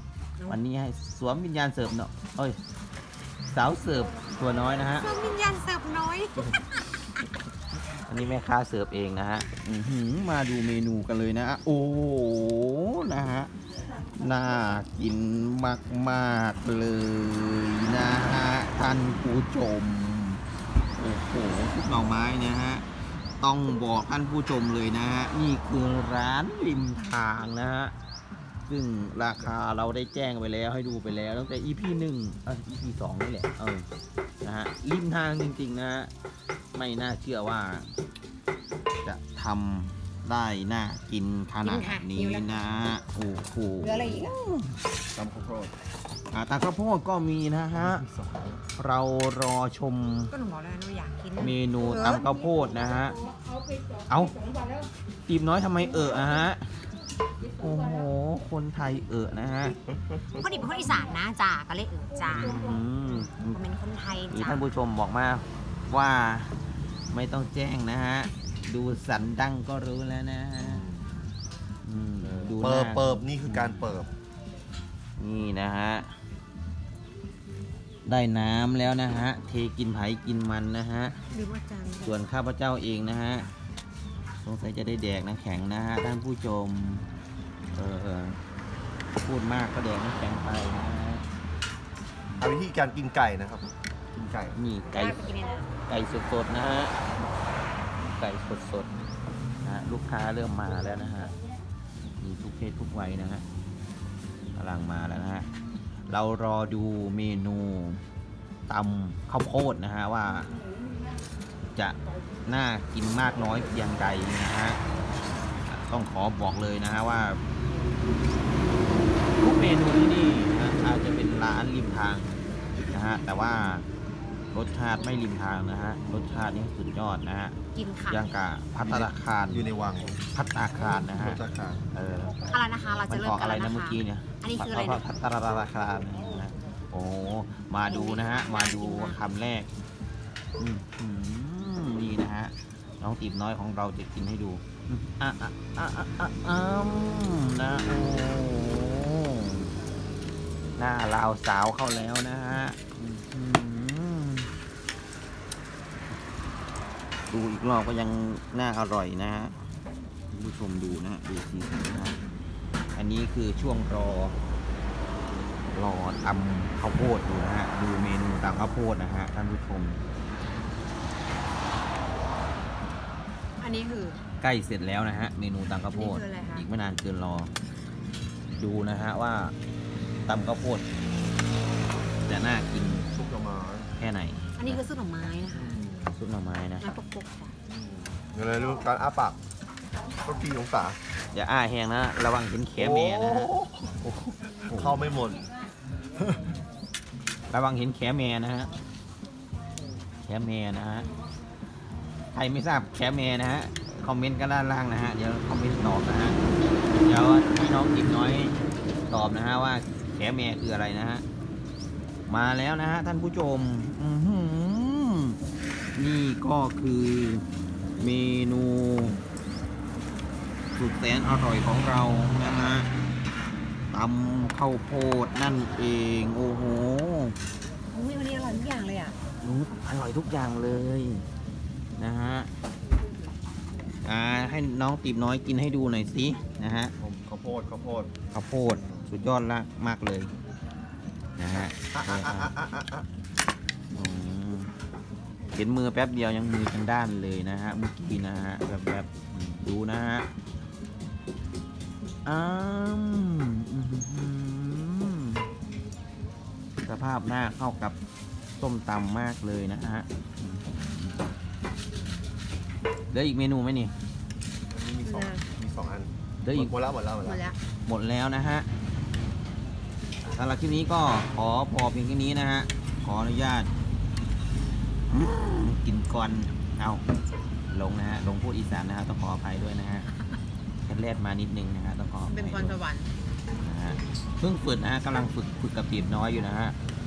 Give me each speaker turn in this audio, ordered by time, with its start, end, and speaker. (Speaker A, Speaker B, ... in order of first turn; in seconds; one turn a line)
Speaker A: 0.5-2.6
Speaker A: 3.5-5.1
Speaker B: 5.0-6.5
Speaker A: 8.1-13.5
Speaker A: 14.1-20.4
Speaker A: 21.0-22.9
Speaker A: 23.4-27.9
Speaker A: 28.7-33.9
Speaker A: 34.4-36.1
Speaker A: 36.7-37.9
Speaker A: 39.0-44.8
Speaker B: 41.6-42.5
Speaker B: 43.8-44.4
Speaker C: 45.1-45.7
Speaker A: 46.3-48.0
Speaker C: 47.7-48.5
Speaker A: 48.8-50.3
Speaker B: 50.3-52.2
Speaker A: 51.4-53.2
Speaker A: 54.1-54.4
Speaker A: 55.3-56.8
Speaker A: 57.6-59.8
Speaker B: 60.3-62.6
Speaker A: 62.3-63.6
Speaker B: 63.5-64.7
Speaker A: 64.3-66.6
Speaker A: 67.1-70.8
Speaker C: 70.6-71.1
Speaker A: 71.8-73.9
Speaker C: 72.2-74.1
Speaker A: 75.2-76.1
Speaker A: 78.1-81.2
Speaker B: 81.3-82.1
Speaker A: 82.0-83.5
Speaker A: 84.4-87.1
Speaker A: 87.7-88.4
Speaker A: 89.2-91.2
Speaker C: 92.4-94.6
Speaker A: 94.5-95.2
Speaker B: 94.9-95.7
Speaker A: 95.9-97.0
Speaker A: 98.1-98.9
Speaker A: 99.6-101.3
Speaker A: 102.2-103.4
Speaker A: 104.6-105.5
Speaker A: 106.1-108.0
Speaker A: 108.7-110.5
Speaker A: 111.8-114.8
Speaker A: 115.7-117.4
Speaker A: 119.4-123.9
Speaker A: 124.5-127.6
Speaker B: 127.8-128.3
Speaker A: 128.1-129.7
Speaker C: 128.8-130.2
Speaker A: 130.3-131.4
Speaker C: 131.2-131.8
Speaker A: 131.9-132.3
Speaker B: 132.5-135.0
Speaker A: 133.1-139.7
Speaker B: 137.9-139.2
Speaker A: 140.6-149.7
Speaker A: 150.8-154.5
Speaker A: 157.3-159.6
Speaker A: 160.3-162.2
Speaker A: 162.9-164.4
Speaker A: 165.7-170.0
Speaker B: 173.6-174.2
Speaker A: 174.4-177.5
Speaker B: 175.9-176.7
Speaker A: 178.6-179.6
Speaker A: 180.3-180.8
Speaker A: 182.2-183.1
Speaker C: 183.1-183.9
Speaker A: 184.0-184.8
Speaker B: 184.6-185.8
Speaker C: 185.5-186.1
Speaker A: 186.1-186.9
Speaker B: 186.8-187.6
Speaker C: 187.7-189.4
Speaker C: 190.2-191.0
Speaker A: 191.3-195.0
Speaker C: 192.8-194.0
Speaker C: 194.7-195.5
Speaker C: 196.2-196.5
Speaker A: 197.5-198.7
Speaker A: 200.2-201.1
Speaker A: 202.3-206.4
Speaker A: 207.0-208.6
Speaker A: 209.1-211.2
Speaker A: 212.3-215.4
Speaker A: 216.0-217.4
Speaker A: 218.0-219.2
Speaker A: 220.8-222.9
Speaker A: 223.9-227.4
Speaker B: 227.9-229.2
Speaker A: 229.4-231.2
Speaker A: 232.0-232.5
Speaker A: 234.1-236.9
Speaker C: 237.0-238.1
Speaker A: 238.3-240.3
Speaker C: 238.7-239.1
Speaker A: 241.4-242.5
Speaker C: 241.5-243.1
Speaker A: 243.9-244.7
Speaker A: 245.6-250.3
Speaker A: 252.2-255.5
Speaker A: 256.8-258.0
Speaker A: 258.6-260.9
Speaker A: 263.1-263.9
Speaker C: 264.7-267.5
Speaker B: 265.1-265.4
Speaker A: 266.4-266.7
Speaker B: 267.2-267.6
Speaker A: 267.9-268.7
Speaker A: 270.2-273.7
Speaker A: 275.1-277.0
Speaker A: 277.7-280.1
Speaker A: 280.9-282.8
Speaker B: 282.2-283.1
Speaker A: 283.6-286.8